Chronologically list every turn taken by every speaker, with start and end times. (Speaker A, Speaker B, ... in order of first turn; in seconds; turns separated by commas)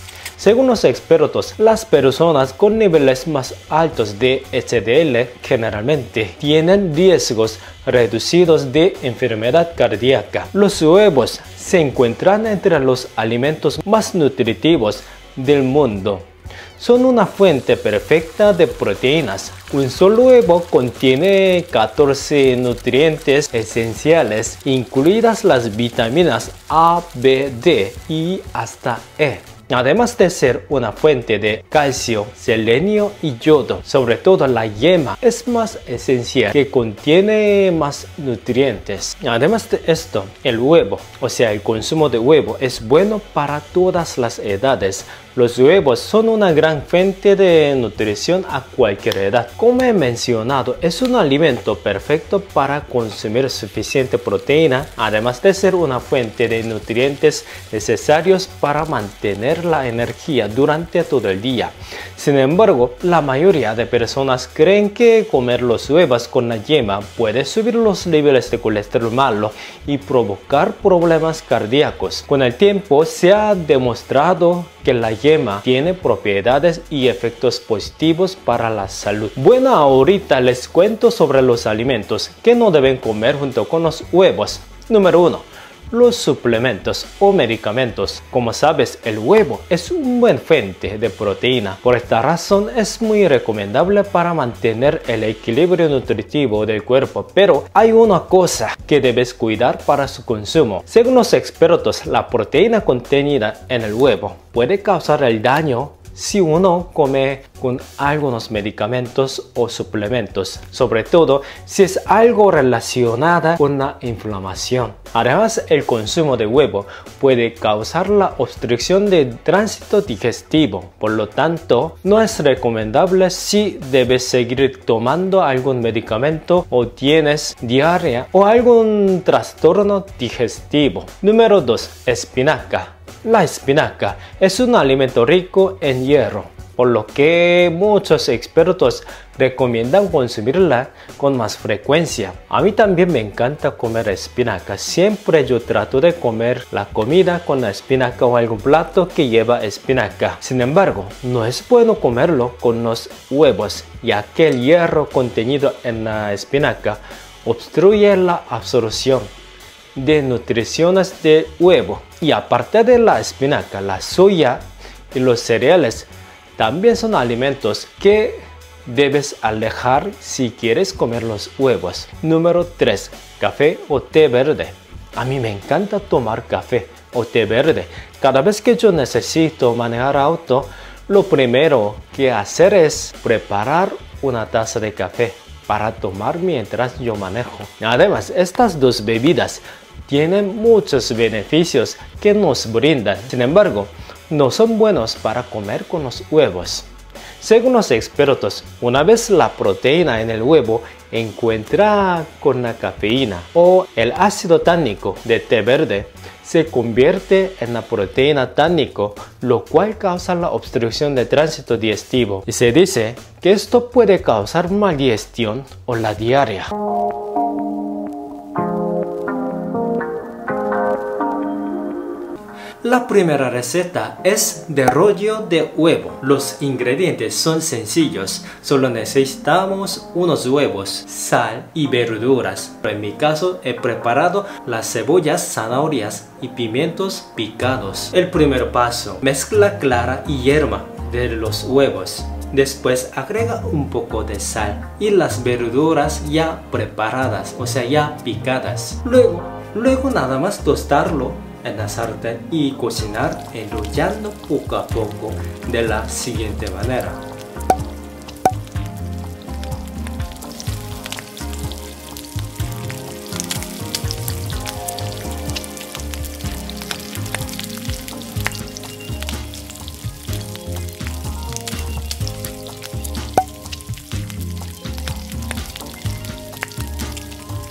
Speaker A: 0.4-159.3, Speaker A: 159.9-196.9, Speaker A: 197.4-216.7, Speaker A: 222.8-257.2